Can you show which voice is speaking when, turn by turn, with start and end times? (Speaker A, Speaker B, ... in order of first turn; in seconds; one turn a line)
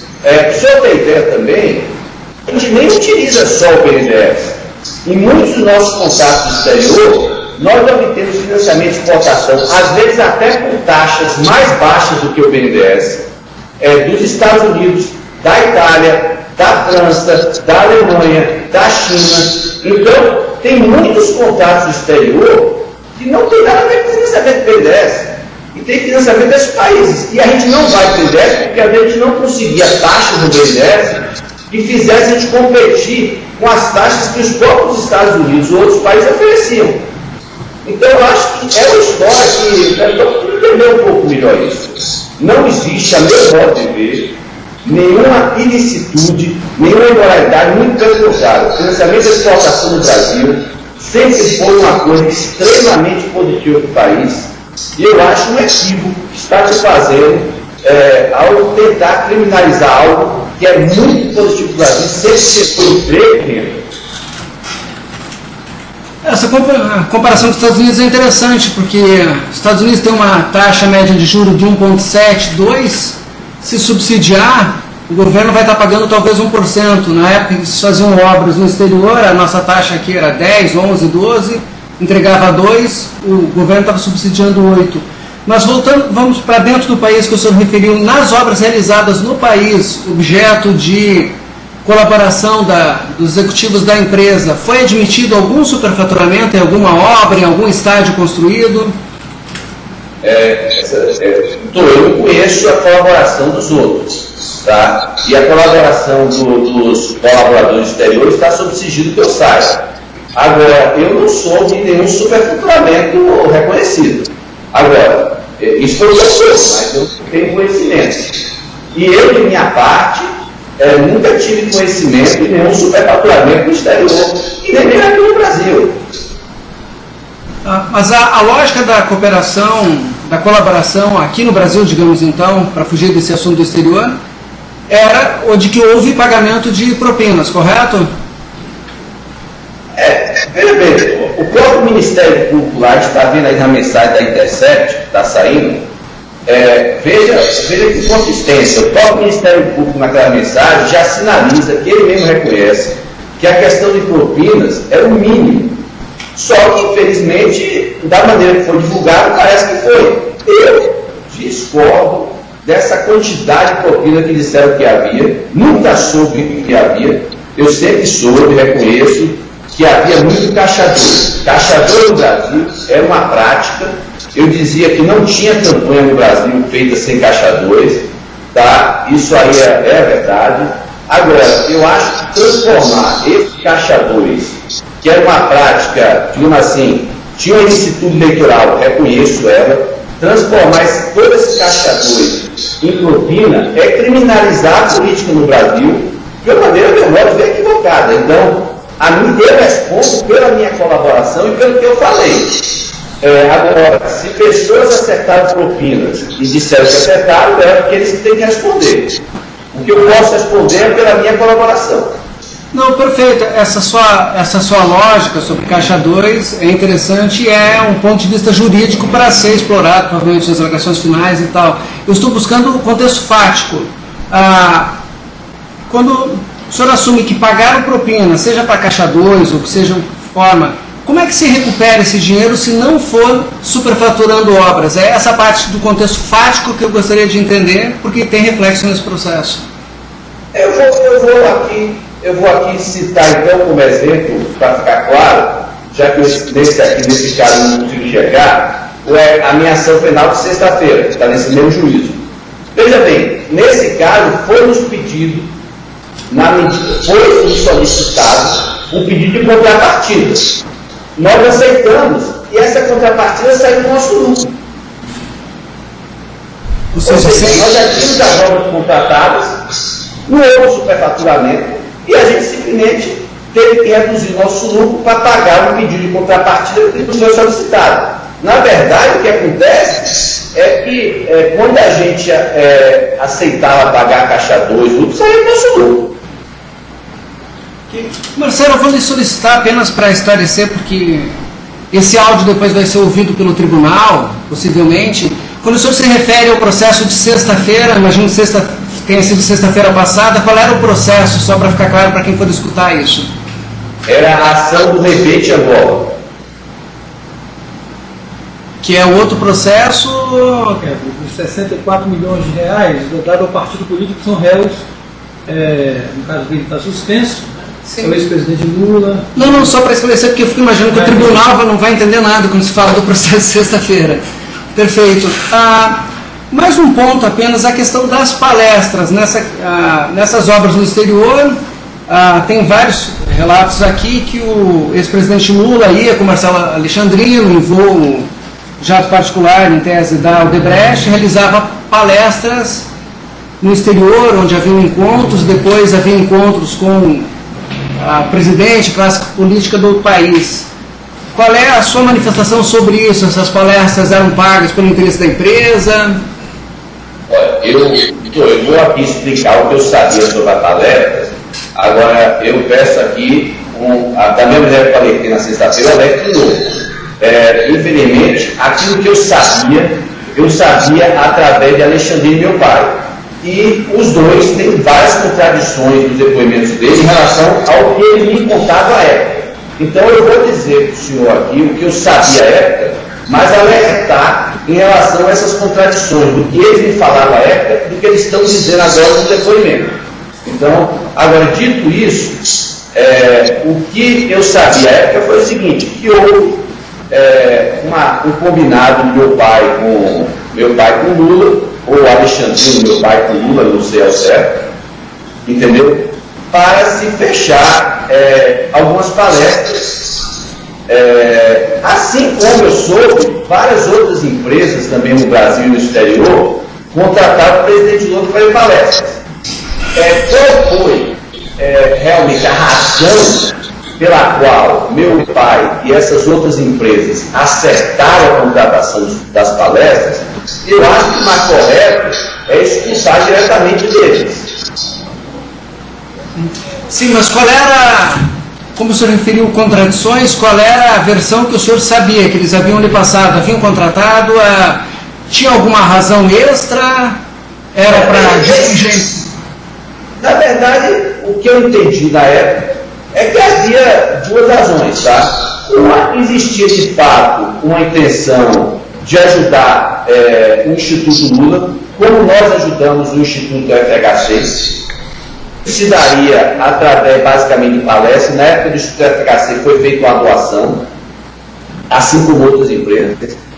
Speaker A: 0.2-13.2
Speaker A: 13.8-37.0
Speaker A: 37.8-63.8
Speaker B: 66.2-99.0
Speaker A: 100.2-118.4
Speaker A: 118.9-126.0
Speaker B: 127.6-134.2
Speaker B: 134.9-138.1
Speaker A: 139.9-145.8
Speaker A: 146.4-155.8
Speaker A: 156.3-202.7
Speaker A: 203.2-209.2
Speaker A: 209.7-212.2
Speaker B: 212.7-224.9
Speaker B: 225.9-239.6
Speaker A: 240.5-255.5
Speaker A: 256.3-260.6
Speaker A: 261.1-264.6
Speaker B: 266.9-267.6
Speaker A: 267.0-269.6
Speaker A: 270.2-286.1
Speaker B: 287.9-291.3
Speaker B: 291.9-303.3
Speaker A: 304.1-306.1
Speaker B: 308.8-310.8
Speaker C: 310.8-314.8
Speaker C: 315.4-319.6
Speaker B: 319.4-324.2
Speaker C: 320.9-321.4
Speaker B: 324.7-338.3
Speaker B: 338.8-342.9
Speaker B: 343.6-347.3
Speaker B: 348.0-350.7
Speaker B: 351.3-356.2
Speaker A: 357.3-404.7
Speaker A: 405.4-410.1
Speaker A: 410.9-419.2
Speaker A: 419.9-434.5
Speaker B: 436.4-447.2
Speaker B: 447.7-449.2
Speaker A: 447.9-448.8
Speaker A: 450.2-464.7
Speaker A: 465.6-470.9
Speaker A: 471.9-473.4